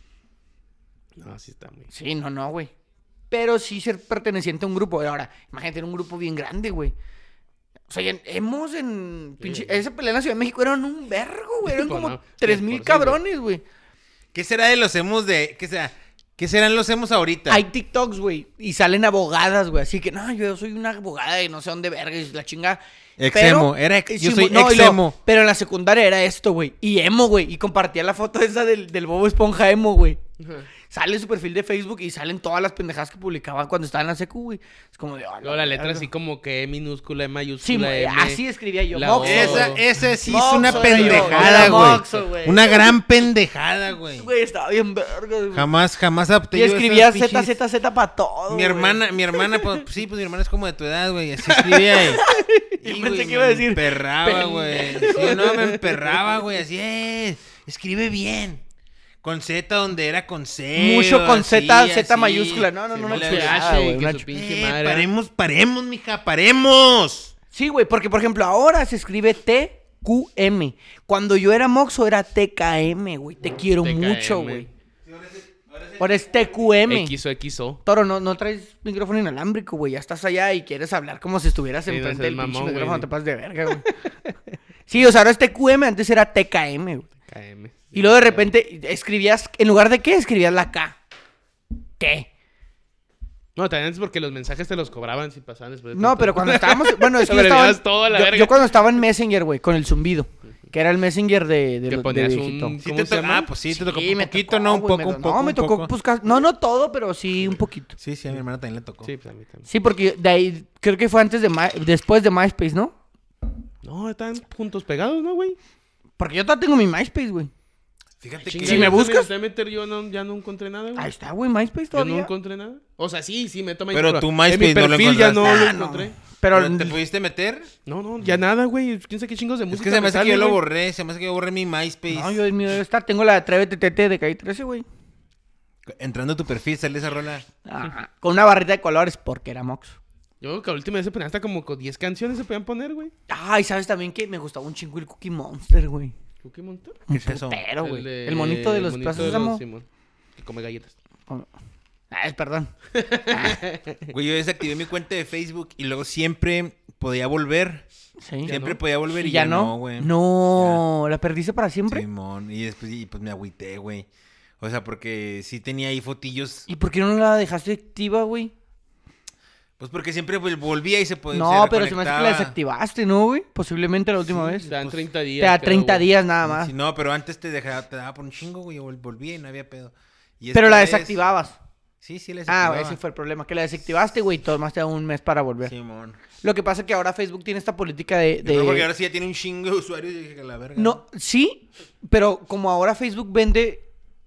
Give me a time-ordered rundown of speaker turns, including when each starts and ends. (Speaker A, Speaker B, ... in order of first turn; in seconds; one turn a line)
Speaker A: 1.1-1.9
Speaker B: 1.9-2.7
Speaker B: 3.3-6.9
Speaker B: 7.9-13.6
Speaker A: 9.4-9.8
Speaker A: 11.6-13.2
Speaker C: 14.3-17.6
Speaker B: 17.5-22.8
Speaker C: 23.2-25.2
Speaker B: 23.3-30.2
Speaker A: 30.4-30.7
Speaker B: 30.9-36.1
Speaker A: 35.4-39.9
Speaker B: 37.6-42.9
Speaker C: 39.2-44.3
Speaker A: 40.4-42.2
Speaker B: 44.1-45.6
Speaker C: 45.5-47.5
Speaker B: 46.5-49.0
Speaker C: 48.5-52.2
Speaker B: 51.9-55.6
Speaker C: 52.8-58.6
Speaker A: 54.4-56.2
Speaker C: 59.2-63.8
Speaker B: 60.7-64.2
Speaker A: 62.9-65.1
Speaker C: 64.3-67.3
Speaker B: 67.5-74.7
Speaker A: 73.8-74.7
Speaker C: 75.0-76.2
Speaker B: 76.0-77.1
Speaker A: 76.9-77.8
Speaker B: 77.8-83.9
Speaker A: 81.9-83.1
Speaker B: 84.9-87.1
Speaker A: 87.3-88.5
Speaker B: 87.9-91.0
Speaker B: 92.0-92.3
Speaker A: 93.5-98.8
Speaker B: 95.9-102.8
Speaker A: 101.9-103.5
Speaker C: 102.8-105.9
Speaker B: 103.7-107.9
Speaker C: 108.0-109.1
Speaker A: 109.0-109.7
Speaker B: 109.7-112.9
Speaker A: 113.8-115.6
Speaker B: 116.2-117.5
Speaker C: 118.2-119.0
Speaker A: 118.5-121.1
Speaker B: 118.6-119.3
Speaker B: 121.0-122.3
Speaker A: 121.9-126.1
Speaker C: 123.9-125.7
Speaker B: 125.4-127.0
Speaker C: 126.5-127.7
Speaker A: 127.8-130.6
Speaker C: 129.7-132.4
Speaker B: 132.1-134.8
Speaker C: 135.8-137.4
Speaker B: 137.7-140.0
Speaker A: 140.4-143.1
Speaker B: 143.3-146.1
Speaker A: 146.4-147.0
Speaker B: 147.1-149.6
Speaker C: 147.1-147.6
Speaker A: 147.8-149.8
Speaker A: 150.4-150.9
Speaker B: 152.1-152.7
Speaker A: 152.9-154.1
Speaker B: 153.3-153.6
Speaker C: 154.1-157.8
Speaker B: 158.2-158.5
Speaker A: 158.4-158.8
Speaker C: 158.4-160.8
Speaker B: 159.1-162.0
Speaker C: 161.9-164.1
Speaker C: 164.6-166.7
Speaker B: 166.7-168.5
Speaker C: 169.8-172.5
Speaker B: 171.3-174.7
Speaker C: 174.3-175.0
Speaker A: 174.7-176.1
Speaker B: 175.4-176.7
Speaker C: 176.4-181.2
Speaker B: 180.5-181.6
Speaker C: 182.0-183.0
Speaker B: 182.5-185.7
Speaker C: 185.6-186.2
Speaker B: 186.4-188.9
Speaker C: 188.4-191.0
Speaker B: 190.8-193.8